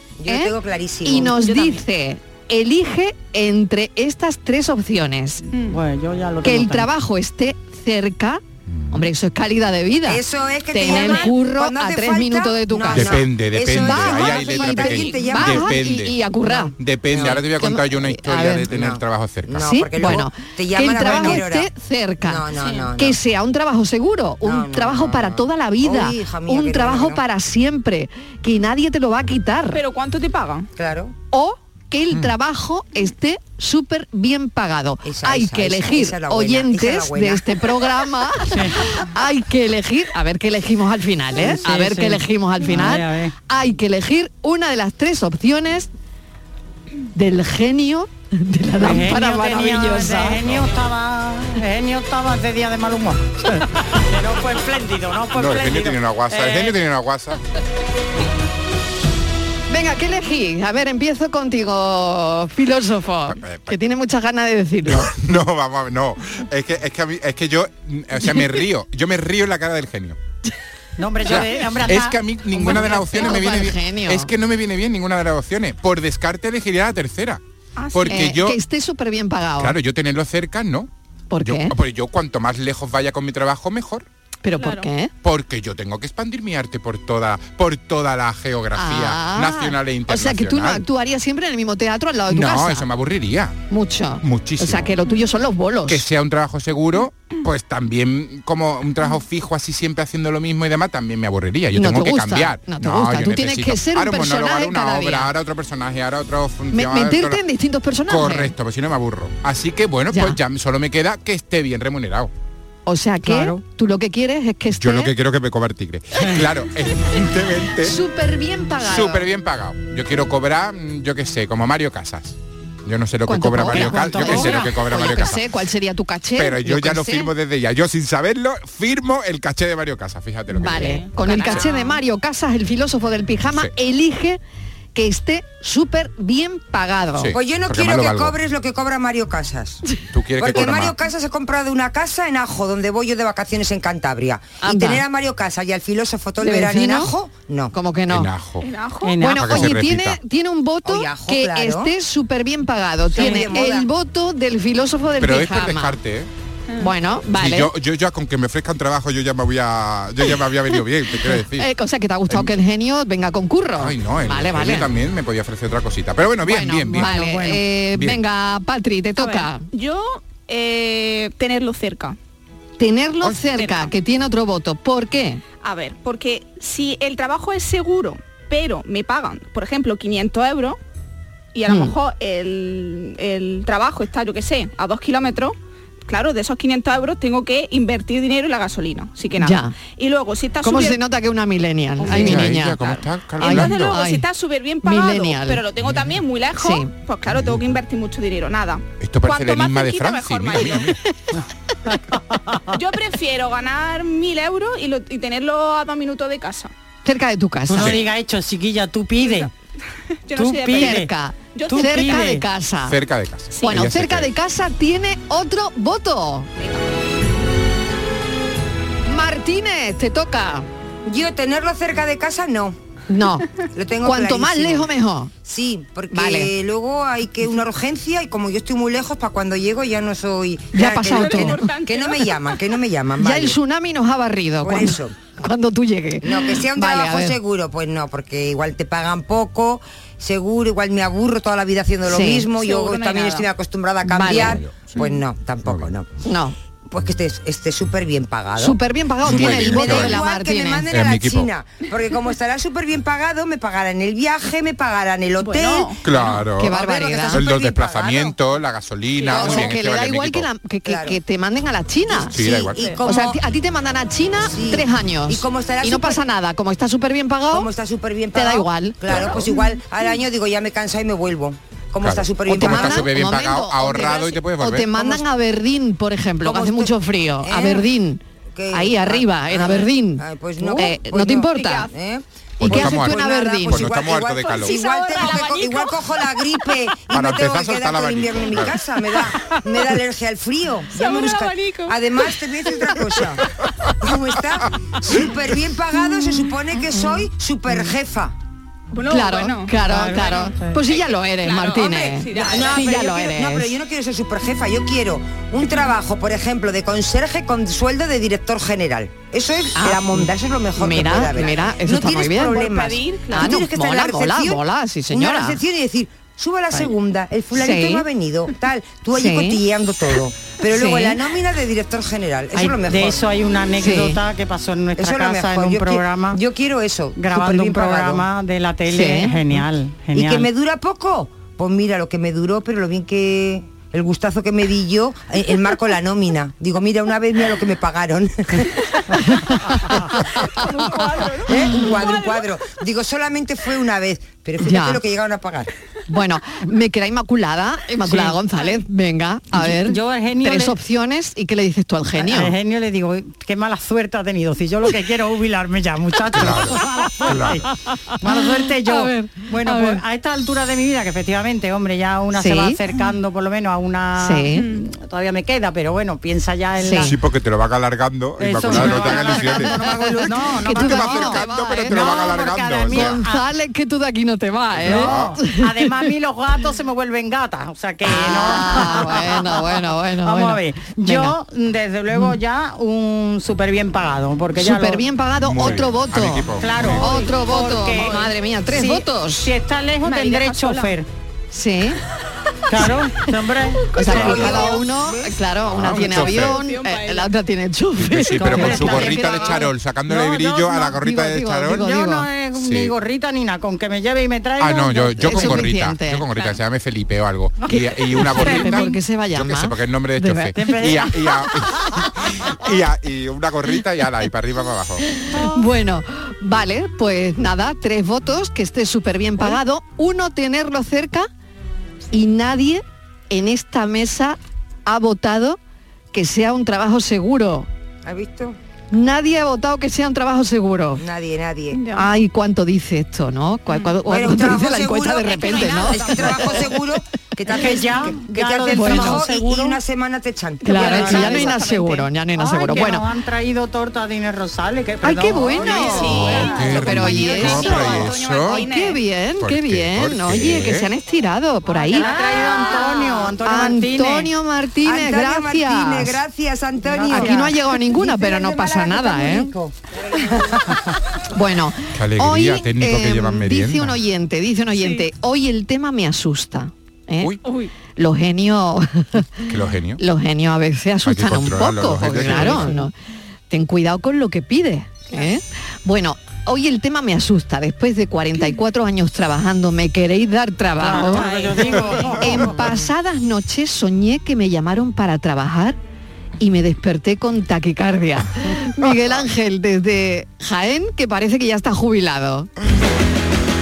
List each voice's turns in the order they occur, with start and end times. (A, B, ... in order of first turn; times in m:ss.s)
0:00.2-0:01.4 A
0:00.3-0:00.5 B
0:01.0-0:05.4 B
0:01.4-0:01.8 C
0:05.5-0:05.8 C
0:05.7-0:06.9 D
0:06.4-0:16.7 B
0:08.7-0:09.1 E
0:10.1-0:15.7 A
0:10.8-0:11.3 C
0:12.9-0:20.2 E
0:17.1-0:17.5 A
0:17.6-0:18.7 B
0:18.7-0:21.7 A
0:19.6-0:22.4 B
0:21.1-0:21.4 E
0:22.2-0:23.2 A
0:22.6-0:22.9 C
0:23.0-0:29.8 B
0:24.4-0:27.2 A
0:29.7-0:30.7 C
0:30.8-0:31.2 A
0:31.3-0:45.9 B
0:35.0-0:37.7 A
0:38.5-0:38.8 D
0:41.4-0:43.3 D
0:47.2-0:50.5 B
0:48.8-0:56.8 D
0:55.3-0:57.4 E
0:59.7-1:05.1 B
1:03.3-1:03.8 E
1:04.9-1:10.2 E
1:11.0-1:13.0 D
1:11.2-1:17.4 E
1:12.6-1:14.3 B
1:17.8-1:18.2 C
1:17.9-1:18.6 E
1:18.1-1:19.8 B
1:19.6-1:20.9 E
1:21.3-1:21.7 B
1:21.4-1:24.1 E
1:24.4-1:25.1 B
1:24.6-1:24.9 C
1:25.2-1:30.8 E
1:28.8-1:32.9 B
1:32.3-1:33.6 E
1:33.7-1:36.0 B
1:34.2-1:34.9 E
1:35.9-1:47.4 E
1:41.8-1:45.3 B
1:46.7-1:48.5 B
1:48.1-1:52.3 E
1:50.1-1:50.4 B
1:52.9-1:55.1 B
1:53.2-1:53.6 D
1:54.8-1:58.0 E
1:57.8-1:59.2 B
1:58.8-2:05.4 E
2:03.3-2:07.3 B
2:03.5-2:04.9 D
2:06.4-2:11.7 E
2:10.6-2:14.4 B
2:10.8-2:12.0 C
2:15.0-2:17.3 B
2:17.2-2:18.4 E
2:17.3-2:19.8 A
2:20.1-2:21.0 E
2:20.4-2:27.7 A
2:24.6-2:25.0 B
2:26.4-2:27.1 B
2:27.7-2:28.3 B
2:28.1-2:28.7 E
2:28.6-2:29.2 C
2:29.0-2:29.7 D
2:29.2-2:36.0 B
2:29.4-2:30.2 E
2:30.8-2:31.9 A
2:33.1-2:33.9 A
2:35.2-2:36.3 E
2:36.8-2:37.7 B
2:37.3-2:41.7 E
2:41.5-2:44.9 B
2:42.3-2:42.5 E
2:43.8-2:47.1 E
2:46.5-2:49.6 B
2:46.9-2:47.6 D
2:48.0-2:48.2 E
2:49.2-2:52.2 C
2:52.8-2:55.4 B
2:53.6-2:53.8 C
2:55.6-3:00.8 C
3:01.5-3:11.0 C
3:01.7-3:01.9 B
3:09.4-3:09.7 B
3:10.6-3:12.9 B
3:12.1-3:14.0 E
3:12.1-3:20.9 C
3:13.4-3:14.2 B
3:14.8-3:15.6 B
3:16.6-3:16.9 B
3:19.0-3:21.0 E
3:21.9-3:22.6 D
3:22.7-3:26.7 C
3:27.0-3:28.0 B
3:27.7-3:29.5 D
3:29.2-3:29.5 C
3:30.3-3:32.4 C
3:30.4-3:31.1 D
3:30.7-3:33.0 B
3:31.7-3:32.4 D
3:32.9-3:34.3 E
3:33.5-3:33.8 C
3:33.6-3:36.5 B
3:39.1-3:40.7 B
3:41.1-3:42.8 A
3:43.1-3:43.5 B
3:43.7-3:44.9 A
3:44.0-3:45.3 B
3:45.4-3:53.6 A
3:46.1-3:46.5 B
3:50.7-3:51.6 B
3:51.0-3:52.5 C
3:53.2-3:57.4 B
3:54.6-3:55.2 A
3:56.2-4:06.1 A
4:02.1-4:02.5 B
4:02.6-4:03.5 C
4:04.1-4:04.6 B
4:04.3-4:05.0 E
4:05.6-4:05.9 E
4:06.2-4:06.6 B
4:06.9-4:18.4 A
4:08.6-4:10.8 B
4:09.2-4:10.2 E
4:10.9-4:11.5 E
4:15.4-4:16.0 C
4:16.0-4:16.7 E
4:16.6-4:17.4 B
4:17.3-4:20.5 E
4:19.3-4:19.7 A
4:19.3-4:22.5 B
4:20.9-4:21.2 A
4:22.1-4:23.4 A
4:22.3-4:22.8 E
4:22.8-4:23.0 C
4:23.0-4:27.7 B
4:24.4-4:26.2 A
4:27.5-4:33.1 A
4:28.3-4:29.3 B
4:29.1-4:29.4 E
4:32.0-4:35.1 E
4:32.5-4:38.2 B
4:34.0-4:34.3 A
4:36.4-4:37.9 A
4:38.6-4:53.4 A
4:38.7-4:41.9 B
4:41.5-4:41.9 C
4:42.6-4:43.9 B
4:42.6-4:44.8 E
4:44.4-4:46.0 C
4:47.1-4:48.8 E
4:50.9-4:52.2 C
4:54.0-4:58.4 A
4:58.9-5:03.0 C
4:59.1-5:03.7 B
4:59.8-5:00.8 D
5:02.3-5:23.2 A
5:09.8-5:12.7 B
5:12.5-5:13.6 C
5:13.3-5:15.6 B
5:17.5-5:18.1 B
5:19.1-5:19.6 B
5:20.7-5:21.2 B
5:22.5-5:26.4 D
5:23.8-5:24.2 B
5:25.0-5:28.3 A
5:27.2-5:30.5 D
5:28.9-5:29.4 B
5:30.1-5:38.9 A
5:39.3-5:40.4 B
5:40.7-5:42.4 C
5:41.5-5:45.7 A
5:44.6-5:45.0 B
5:46.1-5:52.6 B
5:48.0-5:48.4 D
5:49.5-5:50.8 D
5:52.2-5:57.7 D
5:56.3-5:57.6 E
5:58.2-6:07.2 D
5:58.3-5:59.1 B
5:59.7-6:00.0 B
6:02.4-6:02.8 B
6:04.2-6:04.6 B
6:04.5-6:04.9 C
6:06.8-6:07.1 B
6:07.0-6:09.8 E
6:08.4-6:13.4 D
6:08.8-6:12.1 B
6:10.6-6:13.2 E
6:12.9-6:16.1 B
6:14.8-6:15.4 E
6:14.8-6:25.0 D
6:18.1-6:21.4 B
6:24.6-6:29.5 B
6:25.4-6:27.1 E
6:26.6-6:31.1 D
6:27.9-6:28.3 C
6:30.0-6:31.0 C
6:31.5-6:32.0 B
6:32.7-6:34.7 D
6:33.9-6:34.8 C
6:33.9-6:39.7 B
6:34.6-6:35.4 A
6:35.6-6:36.6 E
6:36.1-6:37.3 C
6:38.0-6:41.9 E
6:38.4-6:40.9 D
6:40.7-6:42.3 B
6:41.7-6:45.7 D
6:42.6-6:43.0 E
6:44.6-6:55.0 E
6:45.2-6:46.3 B
6:47.7-6:51.0 B
6:48.2-6:48.8 D
6:50.6-6:51.1 D
6:55.3-7:01.3 B
6:55.3-6:55.6 D
7:02.1-7:05.6 B
7:06.1-7:07.7 B
7:08.0-7:08.6 A
7:08.9-7:11.0 B
7:11.0-7:11.8 A
7:11.7-7:12.0 C
7:11.9-7:16.6 B
7:14.1-7:21.5 A
7:15.6-7:16.6 D
7:17.5-7:19.8 D
7:18.7-7:19.3 B
7:20.6-7:23.1 B
7:20.7-7:22.1 C
7:20.8-7:21.5 D
7:22.4-7:27.0 D
7:25.0-7:36.2 B
7:25.6-7:29.0 C
7:26.1-7:28.6 E
7:29.4-7:30.9 E
7:31.8-7:34.3 D
7:31.9-7:33.3 C
7:34.8-7:39.8 A
7:36.8-7:37.6 D
7:37.1-7:39.5 B
7:41.3-7:47.3 B
7:41.9-7:44.0 E
7:44.8-7:45.0 C
7:47.4-7:47.7 C
7:48.0-7:49.3 B
7:49.4-7:50.0 E
7:50.0-7:52.9 B
7:51.0-7:52.8 E
7:52.3-7:52.9 D
7:53.5-8:05.8 B
8:00.8-8:02.9 D
8:06.4-8:12.5 B